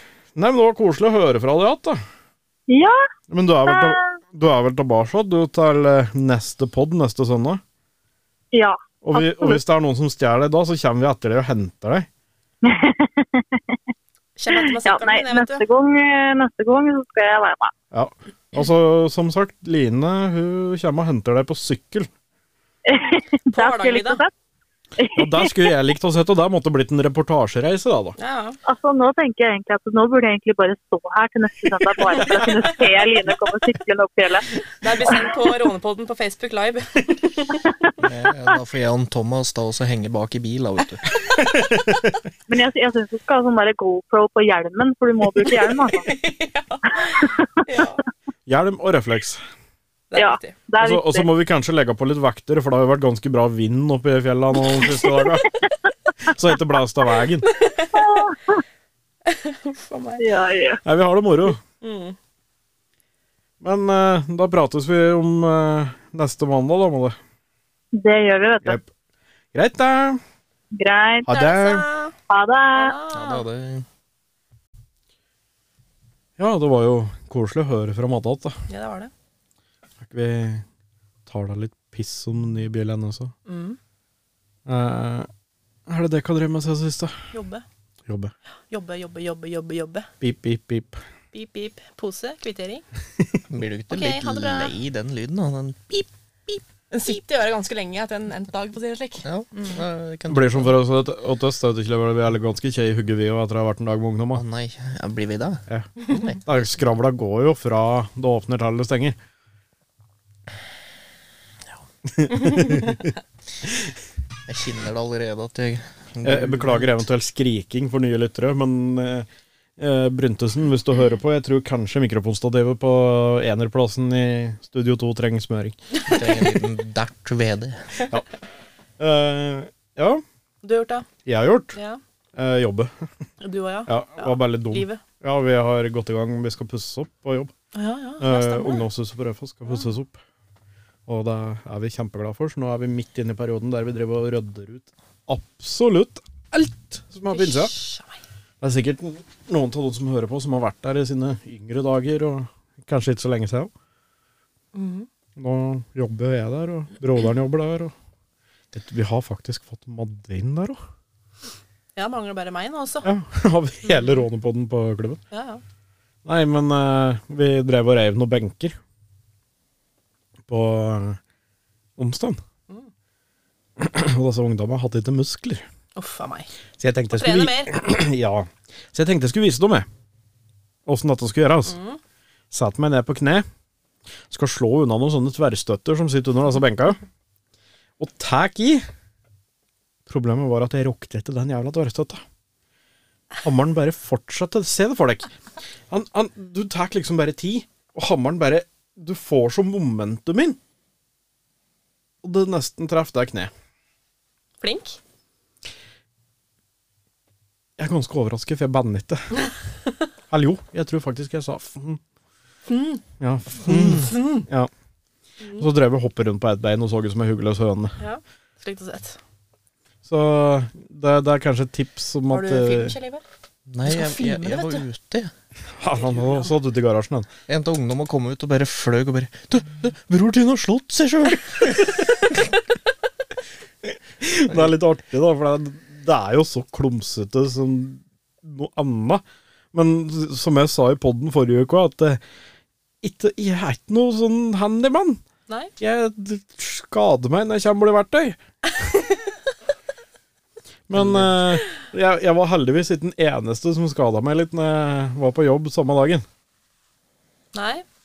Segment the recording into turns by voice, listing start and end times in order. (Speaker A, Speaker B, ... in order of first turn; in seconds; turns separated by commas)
Speaker A: 0.3-2.0, Speaker B: 2.7-3.0, Speaker A: 3.3-7.6, Speaker B: 3.7-4.0, Speaker B: 8.5-9.6, Speaker A: 9.0-12.1, Speaker B: 12.6-13.8, Speaker C: 14.4-15.6, Speaker B: 14.5-17.7, Speaker A: 17.9-22.1, Speaker B: 22.9-24.3, Speaker C: 23.5-24.2, Speaker B: 25.0-25.5, Speaker A: 25.1-28.1, Speaker C: 28.2-28.6, Speaker B: 28.6-34.5, Speaker C: 32.3-32.6, Speaker C: 34.8-37.7, Speaker D: 38.0-41.0, Speaker A: 41.4-42.1, Speaker B: 42.5-46.1, Speaker C: 45.9-48.0, Speaker B: 47.1-47.9, Speaker A: 48.5-49.4, Speaker C: 50.1-50.5, Speaker B: 50.1-51.3, Speaker A: 50.8-55.5, Speaker A: 56.2-57.5, Speaker C: 57.5-58.2, Speaker B: 57.9-58.6, Speaker C: 59.2-60.2, Speaker B: 60.2-60.8, Speaker A: 60.8-61.6, Speaker C: 61.8-62.1, Speaker A: 63.6-67.2, Speaker B: 67.9-68.8, Speaker A: 68.6-68.9, Speaker A: 69.5-70.2, Speaker B: 70.7-71.3, Speaker A: 71.2-71.9, Speaker C: 71.3-72.1, Speaker B: 72.3-73.0, Speaker C: 72.7-73.5, Speaker D: 73.1-73.8, Speaker A: 76.4-78.6, Speaker C: 78.7-79.1, Speaker A: 80.0-80.6, Speaker A: 81.3-83.3, Speaker C: 83.5-83.8, Speaker A: 84.7-85.3, Speaker A: 85.9-87.2, Speaker C: 87.3-87.6, Speaker A: 88.1-88.3, Speaker C: 88.7-90.1, Speaker A: 90.2-91.0, Speaker C: 91.3-92.8, Speaker D: 93.5-96.6, Speaker C: 93.9-94.7, Speaker C: 96.9-99.8, Speaker D: 99.2-100.7, Speaker A: 100.3-104.4, Speaker D: 104.3-106.4, Speaker A: 105.7-109.2, Speaker A: 112.0-113.1, Speaker D: 114.5-116.9, Speaker A: 116.2-119.3, Speaker A: 119.8-125.8, Speaker D: 126.0-128.0, Speaker A: 129.0-130.2, Speaker C: 130.6-131.1, Speaker A: 131.2-131.8, Speaker C: 131.7-132.0, Speaker A: 132.3-133.1, Speaker C: 133.4-135.0, Speaker A: 133.9-137.5, Speaker C: 137.7-138.8, Speaker A: 138.2-140.2, Speaker A: 141.1-147.7, Speaker C: 147.3-148.1, Speaker A: 148.6-153.7, Speaker C: 154.7-155.1, Speaker A: 155.3-157.9, Speaker A: 158.7-160.8, Speaker C: 161.9-163.1, Speaker A: 163.0-165.2, Speaker C: 165.3-165.6, Speaker A: 166.2-168.8, Speaker A: 170.5-171.2, Speaker A: 172.0-172.4, Speaker A: 173.8-175.7, Speaker C: 175.9-176.5, Speaker A: 176.8-179.9, Speaker C: 177.1-177.7, Speaker A: 180.8-181.8, Speaker C: 181.7-182.0, Speaker A: 182.5-183.4, Speaker A: 184.3-187.0, Speaker A: 188.0-188.9, Speaker A: 190.1-192.2, Speaker A: 193.4-195.3, Speaker A: 195.9-200.6, Speaker A: 202.2-203.5, Speaker C: 204.6-205.0, Speaker A: 207.8-209.3, Speaker A: 210.3-212.0, Speaker C: 212.7-213.0, Speaker A: 213.2-214.7, Speaker D: 213.7-214.1, Speaker C: 213.8-214.4, Speaker A: 215.6-218.0, Speaker C: 218.0-219.2, Speaker A: 220.0-222.9, Speaker C: 222.3-223.2, Speaker D: 223.7-225.3, Speaker C: 223.8-224.8, Speaker A: 225.8-227.3, Speaker C: 226.0-226.5, Speaker D: 227.5-232.0, Speaker A: 234.2-242.2, Speaker A: 243.0-245.2, Speaker A: 245.8-248.4, Speaker A: 250.9-256.2, Speaker D: 250.9-251.3, Speaker C: 257.5-257.8